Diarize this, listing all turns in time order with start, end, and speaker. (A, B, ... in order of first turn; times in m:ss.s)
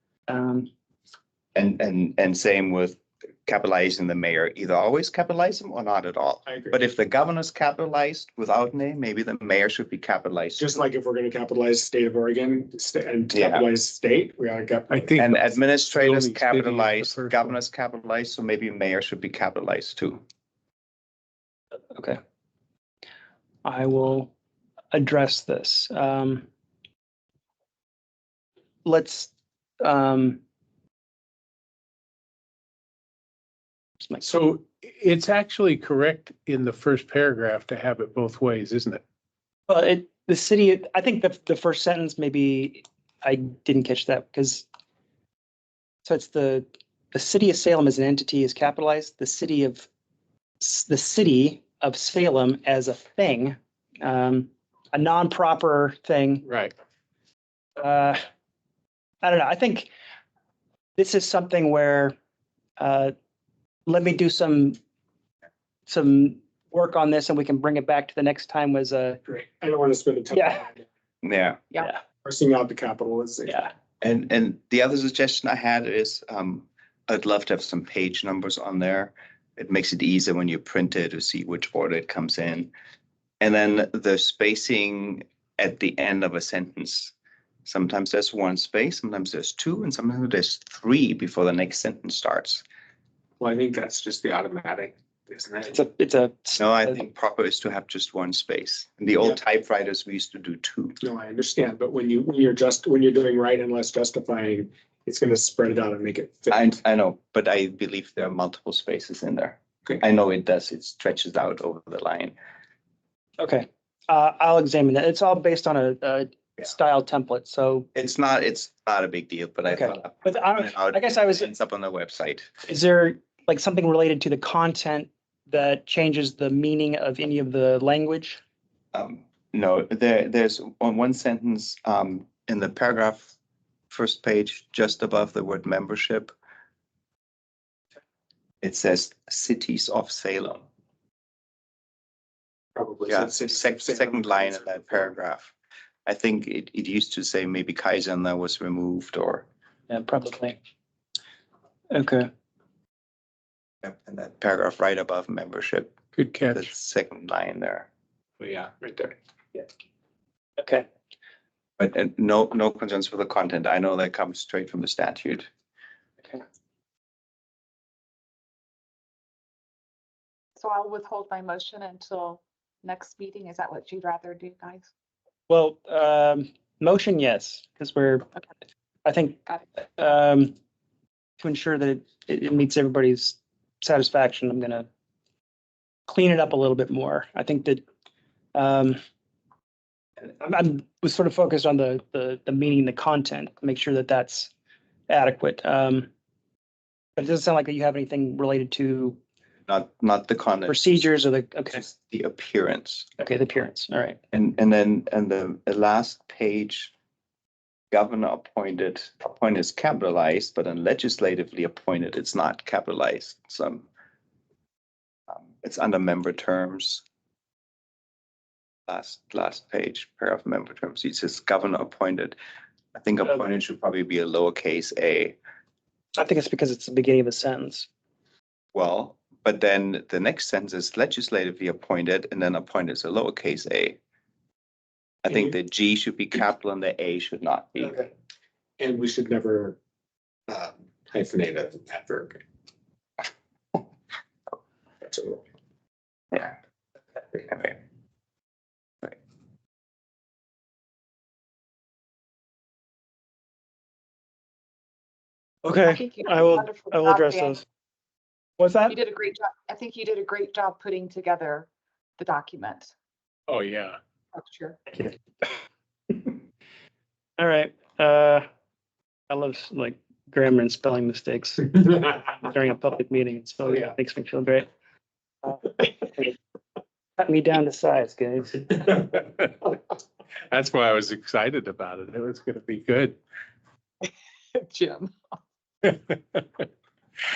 0:00.3-0:00.7 A
0:01.6-0:10.8 B
0:06.4-0:06.8 C
0:10.6-0:15.2 C
0:13.3-0:13.7 B
0:14.9-0:17.6 D
0:15.2-0:20.2 B
0:23.6-0:24.3 A
0:24.9-0:26.5 A
0:28.8-0:29.3 A
0:29.8-0:30.4 A
0:34.2-0:39.0 D
0:39.7-0:44.7 A
0:46.1-0:49.9 A
0:50.6-0:56.4 A
0:56.4-0:56.7 D
0:57.8-0:58.2 A
0:59.2-0:59.9 A
1:01.0-1:02.1 A
1:02.8-1:03.1 A
1:03.9-1:04.8 A
1:05.9-1:09.2 A
1:09.2-1:10.8 C
1:10.3-1:10.6 A
1:11.2-1:11.6 B
1:12.2-1:13.6 C
1:14.0-1:22.7 B
1:23.4-1:27.1 B
1:27.7-1:32.6 B
1:33.4-1:35.8 C
1:35.7-1:37.0 A
1:36.6-1:41.0 B
1:41.0-1:46.7 C
1:46.5-1:52.4 B
1:53.4-1:57.9 A
1:57.9-2:02.5 B
1:59.7-2:01.5 A
2:02.6-2:08.4 A
2:08.9-2:13.3 B
2:13.9-2:16.3 B
2:18.6-2:20.7 B
2:22.8-2:25.0 C
2:23.1-2:25.5 B
2:26.1-2:29.5 B
2:29.9-2:30.6 A
2:31.9-2:32.3 A
2:33.8-2:36.0 B
2:36.2-2:36.7 D
2:36.5-2:37.9 B
2:38.4-2:39.1 C
2:40.6-2:40.9 A
2:41.8-2:45.5 B
2:50.6-2:54.9 E
2:55.5-2:58.3 A
2:59.0-3:00.5 A
3:01.4-3:04.9 A
3:06.1-3:07.8 A
3:08.6-3:09.0 A
3:10.3-3:14.5 A
3:15.1-3:16.1 A
3:17.2-3:19.2 A
3:19.7-3:21.0 B
3:20.7-3:21.8 A
3:21.7-3:23.1 B
3:23.2-3:24.2 A
3:24.3-3:26.9 B
3:27.9-3:33.9 B
3:35.3-3:37.0 B
3:38.9-3:42.4 B
3:43.0-3:45.4 B
3:46.2-3:47.9 A
3:48.7-3:54.0 B
3:55.2-3:58.0 B
3:58.8-3:59.8 C
4:00.5-4:02.4 C
4:05.0-4:05.4 C
4:15.6-4:17.6 A
4:15.8-4:17.6 E
4:18.6-4:19.0 A
4:18.9-4:22.9 E
4:23.5-4:24.0 D
4:24.3-4:24.8 E
4:24.9-4:25.5 A
4:27.4-4:28.4 A
4:29.3-4:34.7 A
4:35.4-4:36.4 A
4:37.2-4:39.0 A
4:39.0-4:39.7 D
4:40.5-4:43.2 D
4:44.0-4:45.3 E